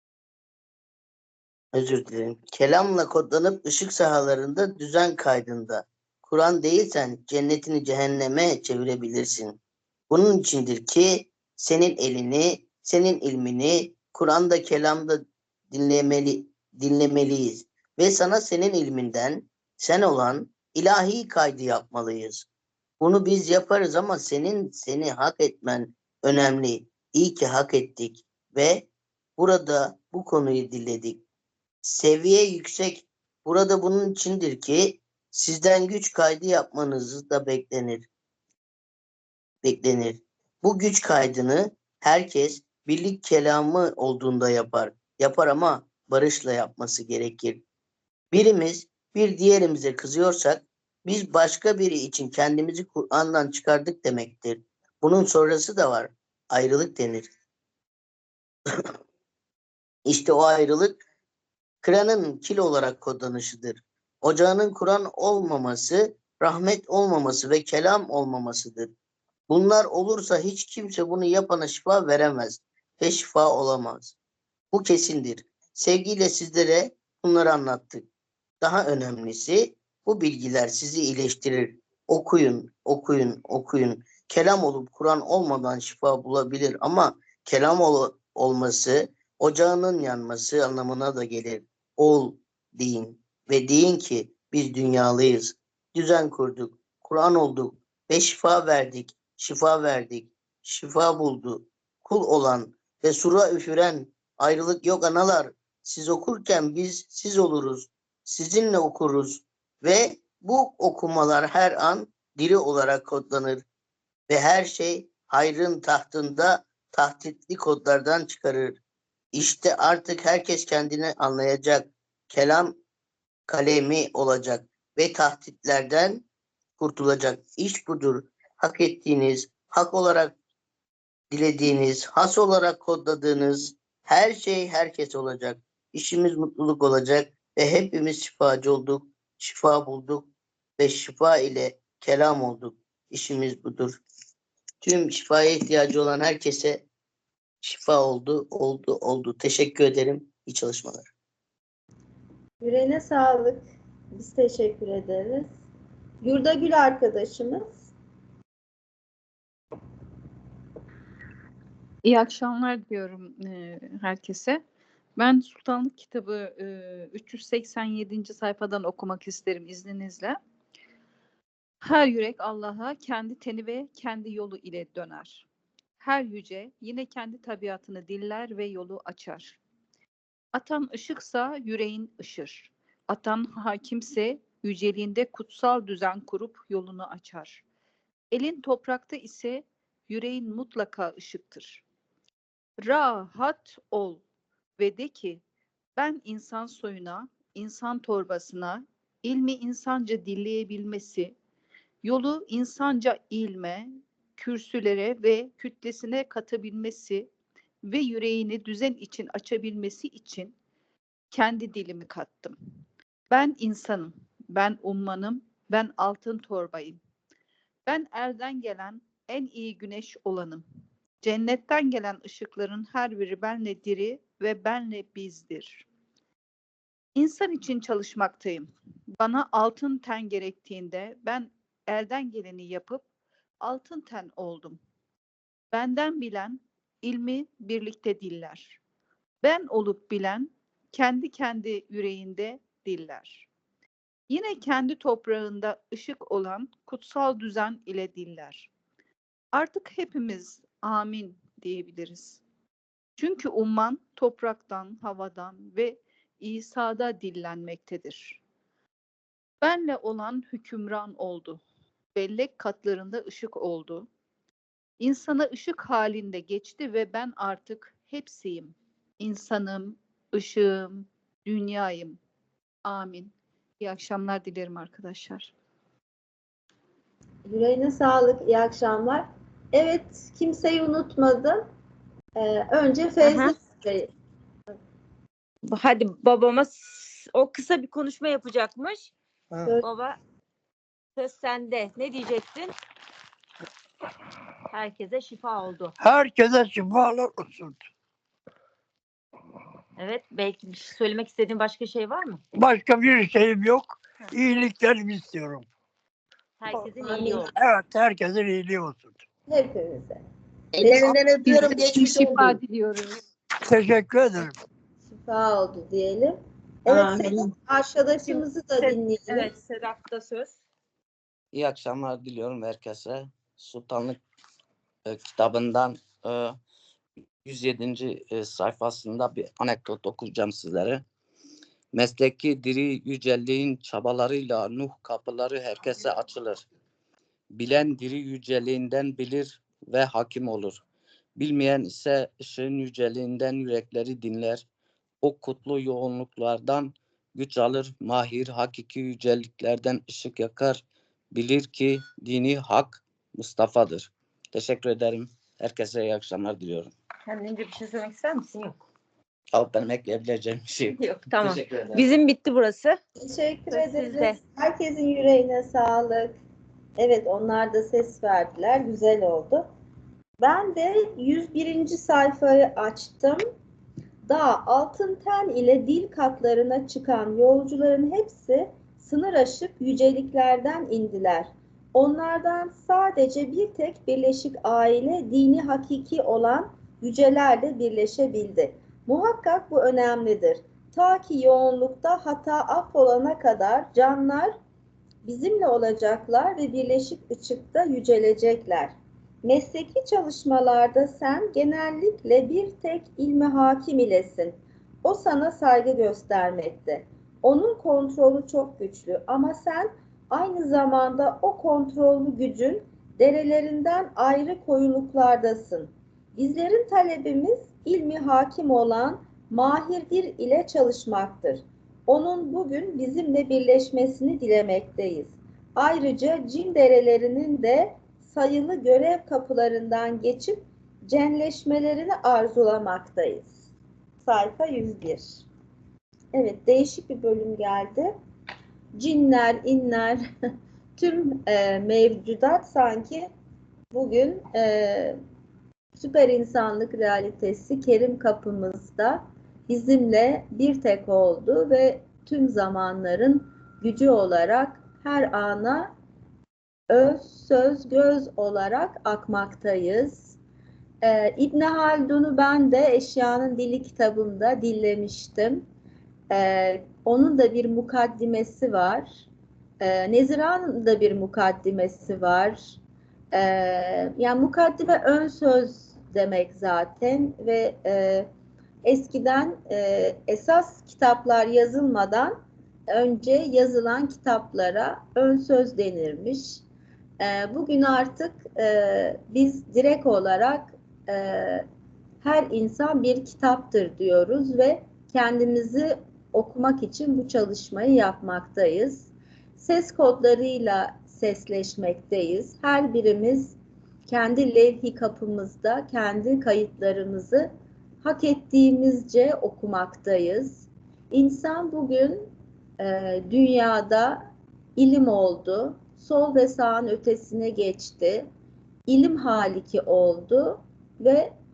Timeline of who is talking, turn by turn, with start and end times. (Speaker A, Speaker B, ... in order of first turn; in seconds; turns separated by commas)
Speaker A: 1.7-9.6, Speaker A: 10.1-22.5, Speaker A: 23.0-31.2, Speaker A: 31.8-38.1, Speaker A: 39.6-47.6, Speaker A: 48.3-57.3, Speaker A: 60.0-61.0, Speaker A: 61.8-68.9, Speaker A: 69.5-74.1, Speaker A: 74.7-78.0, Speaker A: 78.6-113.6, Speaker A: 114.3-118.8, Speaker A: 119.3-122.8, Speaker A: 123.5-126.2, Speaker A: 126.8-130.3, Speaker A: 131.3-140.3, Speaker A: 140.8-144.0, Speaker A: 144.8-146.8, Speaker A: 147.6-151.1, Speaker B: 152.6-155.5, Speaker B: 156.2-157.9, Speaker C: 162.0-164.6, Speaker C: 165.2-170.4, Speaker C: 171.8-175.4, Speaker C: 176.0-179.6, Speaker C: 180.5-187.6, Speaker C: 188.3-191.8, Speaker C: 192.8-194.2, Speaker C: 194.8-195.4, Speaker C: 196.0-201.3, Speaker C: 202.0-207.3, Speaker C: 207.8-210.5, Speaker C: 211.3-212.6, Speaker C: 213.3-217.0, Speaker C: 217.9-220.6, Speaker C: 221.2-225.8, Speaker C: 227.2-228.7, Speaker C: 229.2-233.0, Speaker C: 233.6-234.8, Speaker C: 235.7-238.8, Speaker C: 239.4-243.5, Speaker C: 244.3-248.7, Speaker C: 249.5-252.4, Speaker C: 253.2-258.4, Speaker C: 259.6-261.6, Speaker C: 262.1-264.1, Speaker C: 265.0-272.2, Speaker C: 272.8-275.5, Speaker B: 277.4-281.7, Speaker B: 282.4-284.1, Speaker D: 283.2-283.6, Speaker D: 285.6-289.1, Speaker D: 289.8-290.2, Speaker D: 291.1-292.7, Speaker D: 294.7-295.9, Speaker E: 296.0-297.8, Speaker D: 300.0-302.4, Speaker E: 302.5-305.7, Speaker D: 306.6-307.5, Speaker B: 307.1-307.3, Speaker E: 307.2-309.2, Speaker B: 309.5-310.2, Speaker A: 310.8-312.6, Speaker C: 311.4-313.2, Speaker E: 313.6-314.6, Speaker B: 315.1-319.5, Speaker D: 318.3-320.5, Speaker F: 321.5-324.2, Speaker F: 325.0-326.6, Speaker F: 327.4-331.0, Speaker F: 331.9-336.6, Speaker F: 337.5-340.8, Speaker F: 341.4-344.6, Speaker F: 345.2-356.9, Speaker D: 357.3-358.8, Speaker F: 359.5-362.1, Speaker D: 361.0-363.0, Speaker B: 363.2-366.3, Speaker D: 363.7-364.4, Speaker B: 367.0-369.7, Speaker B: 370.4-373.4, Speaker B: 374.3-394.6, Speaker B: 395.2-433.6, Speaker B: 434.2-435.4, Speaker B: 436.3-438.1, Speaker B: 438.9-440.2, Speaker B: 441.0-443.3, Speaker B: 443.9-445.2, Speaker B: 445.9-455.9, Speaker B: 456.9-460.4, Speaker B: 461.0-465.6, Speaker B: 466.3-469.2, Speaker B: 469.8-472.8, Speaker B: 473.3-478.3, Speaker B: 478.8-482.4, Speaker B: 482.9-486.6, Speaker B: 487.2-491.6, Speaker B: 492.2-507.5, Speaker B: 508.0-512.3, Speaker B: 512.8-514.2, Speaker B: 514.8-518.3, Speaker B: 518.9-521.3